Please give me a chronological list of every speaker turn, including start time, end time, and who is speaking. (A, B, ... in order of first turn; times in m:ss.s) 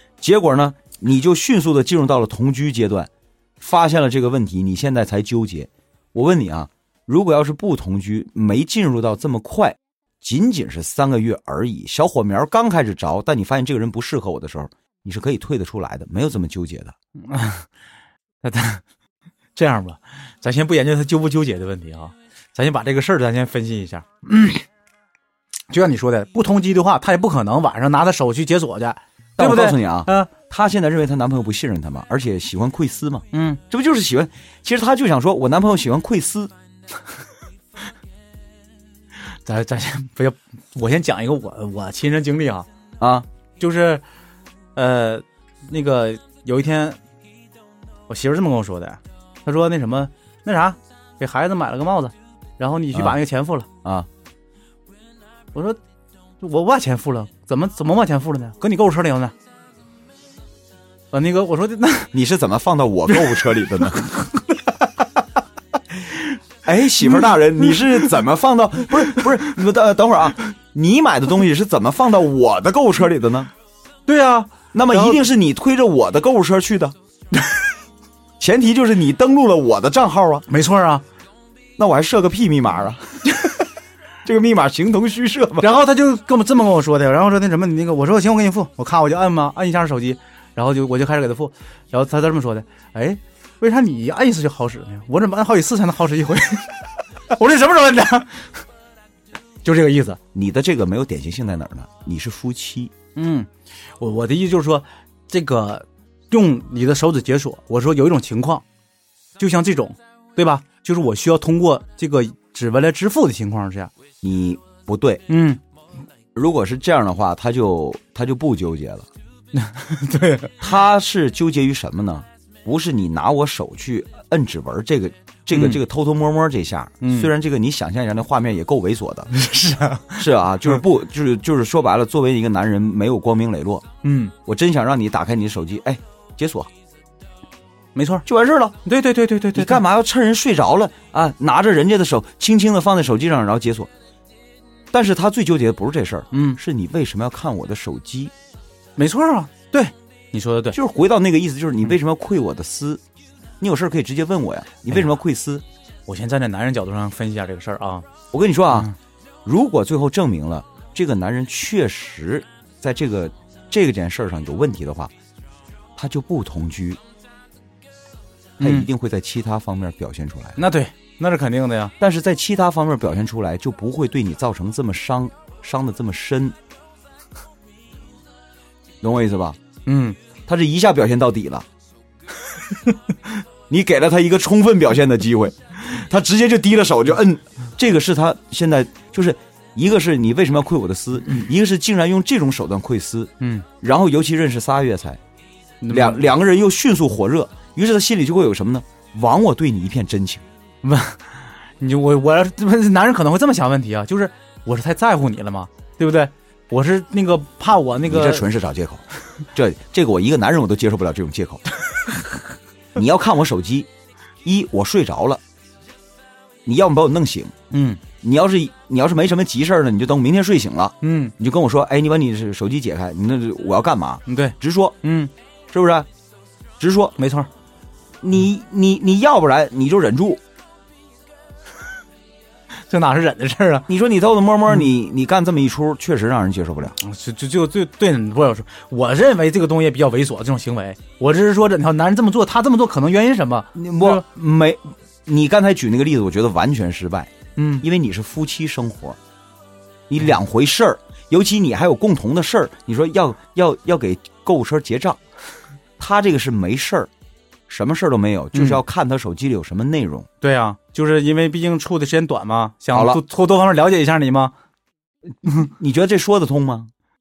0:00.2-0:16.9 A
0:17.2-0:17.7 B
0:18.4-0:18.8 B
0:19.5-0:24.6 B
0:25.7-0:30.3 B
0:29.4-0:36.5 A
0:33.3-0:33.6 B
0:39.3-0:42.7 B
0:43.0-0:43.3 A
0:43.6-0:44.0 B
0:44.8-0:47.0 B
0:48.1-0:53.7 B
0:55.5-0:55.8 B
0:56.4-0:59.3 B
1:01.1-1:02.1 B
1:02.1-1:04.4 A
1:04.6-1:04.8 B
1:06.6-1:13.5 A
1:14.1-1:15.2 B
1:14.7-1:16.9 A
1:18.4-1:20.4 A
1:20.5-1:21.0 B
1:21.8-1:23.5 A
1:24.2-1:25.7 A
1:25.6-1:38.5 B
1:39.6-1:40.2 B
1:40.3-1:42.9 A
1:43.2-1:43.5 B
1:44.0-1:48.6 B
1:49.4-1:53.9 B
1:54.2-1:55.2 A
1:55.3-1:55.6 B
1:56.3-1:59.1 A
1:59.5-2:00.6 B
2:00.6-2:09.3 A
2:05.5-2:05.8 B
2:07.0-2:07.3 B
2:09.3-2:10.2 B
2:10.2-2:13.8 A
2:14.0-2:14.3 B
2:14.4-2:16.7 A
2:17.9-2:18.2 B
2:18.2-2:18.8 A
2:18.8-2:19.8 B
2:19.5-2:23.9 A
2:24.9-2:28.3 A
2:26.3-2:26.6 B
2:29.0-2:30.8 B
2:30.7-2:33.0 A
2:33.6-2:35.6 A
2:36.1-2:38.0 B
2:38.3-2:38.9 A
2:39.4-2:45.1 A
2:46.0-2:47.0 A
2:48.6-2:50.6 A
2:48.6-2:48.9 B
2:50.6-2:51.9 B
2:52.0-2:56.6 A
2:59.0-2:59.6 A
2:59.8-3:00.2 B
3:00.4-3:01.6 A
3:03.7-3:15.2 A
3:13.4-3:13.6 B
3:15.8-3:16.3 B
3:15.9-3:20.4 A
3:20.8-3:28.5 B
3:28.0-3:31.6 A
3:32.9-3:33.9 A
3:34.4-3:35.4 A
3:36.6-3:37.5 A
3:37.7-3:38.0 B
3:38.2-3:45.0 A
3:41.0-3:41.3 B
3:44.3-3:45.3 B
3:45.7-3:46.1 A
3:46.8-3:47.1 A
3:47.2-3:47.5 B
3:48.2-3:50.4 A
3:52.9-3:53.9 B
3:53.9-3:57.0 A
3:57.0-4:04.2 B
4:03.7-4:09.2 A
4:07.6-4:07.8 B
4:10.1-4:15.2 A
4:16.0-4:17.1 A
4:17.7-4:20.3 A
4:18.5-4:18.8 B
4:20.4-4:24.5 B
4:22.9-4:23.2 A
4:25.4-4:26.9 A